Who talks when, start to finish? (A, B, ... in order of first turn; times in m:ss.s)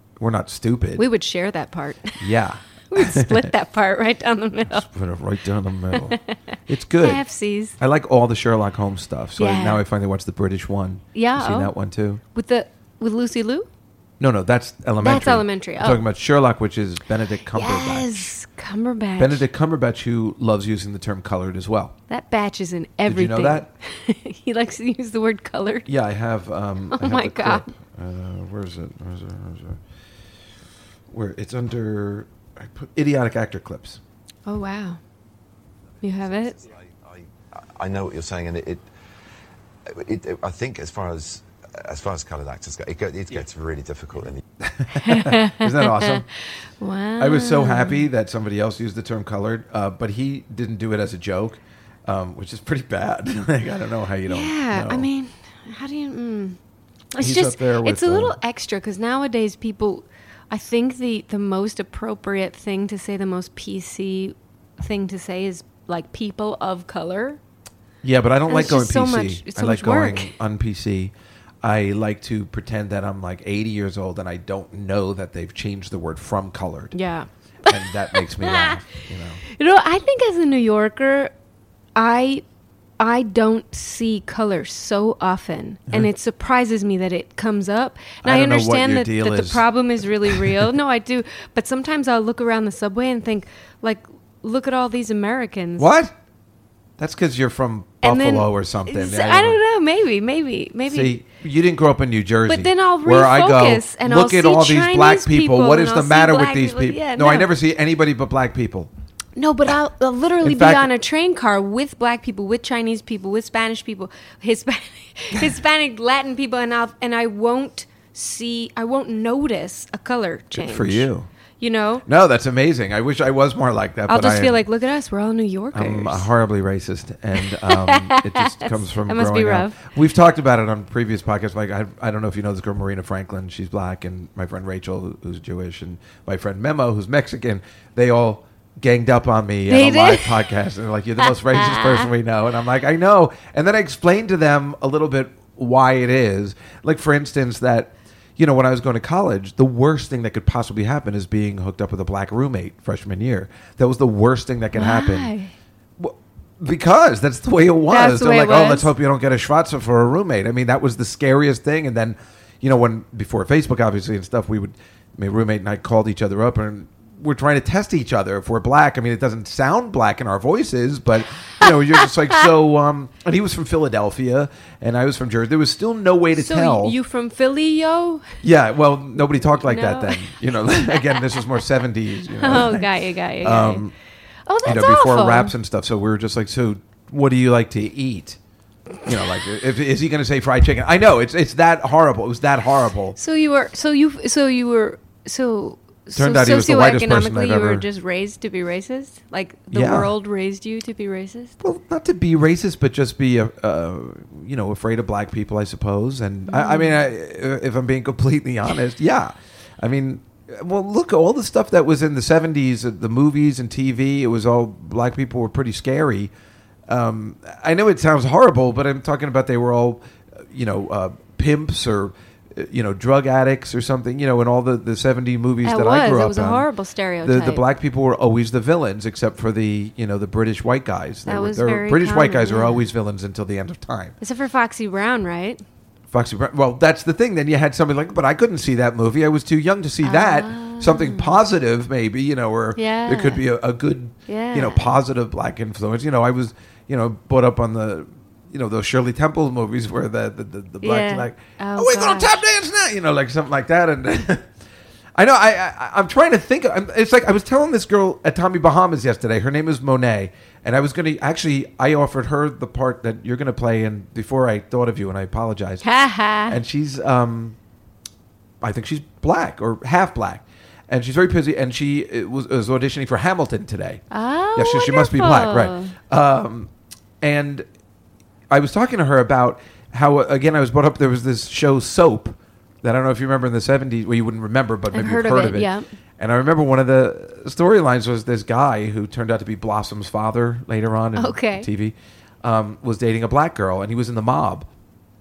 0:00.2-0:01.0 A
0:01.0-0:02.2 B
0:02.2-0:03.5 A
0:02.9-0:04.9 B
0:04.7-0:07.2 A
0:07.0-0:07.8 B
0:07.8-0:12.2 A
0:09.4-0:09.8 B
0:11.2-0:11.7 B
0:12.3-0:13.7 B
0:14.2-0:18.3 A
0:15.0-0:16.0 B
0:17.5-0:19.4 B
0:19.2-0:22.0 A
0:22.1-0:25.9 B
0:23.1-0:23.7 A
0:25.9-0:29.8 A
0:26.9-0:27.7 B
0:31.1-0:34.0 A
0:34.5-0:35.0 B
0:36.0-0:36.6 B
0:36.1-0:38.9 C
0:39.9-0:44.4 C
0:44.6-0:46.2 A
0:45.0-0:46.2 B
0:46.8-0:48.0 B
0:47.2-0:55.1 A
0:54.3-0:56.6 B
0:57.1-1:07.4 B
0:57.2-0:58.4 A
1:08.0-1:17.0 A
1:08.5-1:10.3 B
1:16.9-1:18.9 B
1:17.7-1:19.4 A
1:19.5-1:21.3 B
1:22.0-1:22.4 B
1:23.0-1:35.9 B
1:28.2-1:29.6 A
1:30.2-1:30.6 A
1:35.8-1:36.1 A
1:37.0-1:39.6 A
1:38.0-1:41.2 B
1:40.9-1:48.9 A
1:42.5-1:47.5 B
1:49.4-2:01.1 B
1:50.4-1:50.9 A
2:00.5-2:01.3 A
2:01.6-2:02.0 B
2:02.1-2:04.6 A
2:04.1-2:06.3 B
2:05.7-2:35.3 A
2:07.4-2:09.8 B
2:19.7-2:20.4 B
2:21.2-2:22.1 B
2:34.7-2:35.5 B
2:36.0-2:57.0 A
2:37.9-2:38.9 B
2:56.4-2:58.4 B
2:58.4-3:03.9 A
2:59.5-3:00.3 B
3:02.4-3:03.8 B
3:04.5-3:05.5 B
3:04.6-3:08.4 A
3:09.0-3:13.2 A
3:13.2-3:21.6 B
3:16.2-3:17.8 A
3:19.7-3:20.1 A
3:21.6-3:36.3 A
3:26.5-3:27.0 B
3:36.9-3:46.7 A
3:45.6-3:47.6 B
3:47.2-3:54.2 A
3:51.3-3:52.9 B
3:54.2-3:55.6 B
3:56.1-4:14.5 A
4:00.0-4:01.4 B
4:02.8-4:03.4 B
4:04.3-4:04.9 B
4:10.8-4:12.4 B
4:15.2-4:25.8 A
4:25.8-4:26.6 B
4:26.5-4:27.6 A
4:28.6-4:34.0 A
4:34.1-4:35.9 B
4:34.6-4:36.7 A
4:37.2-4:37.7 A
4:38.5-4:54.7 A
4:44.9-4:45.9 B
4:51.2-4:51.7 B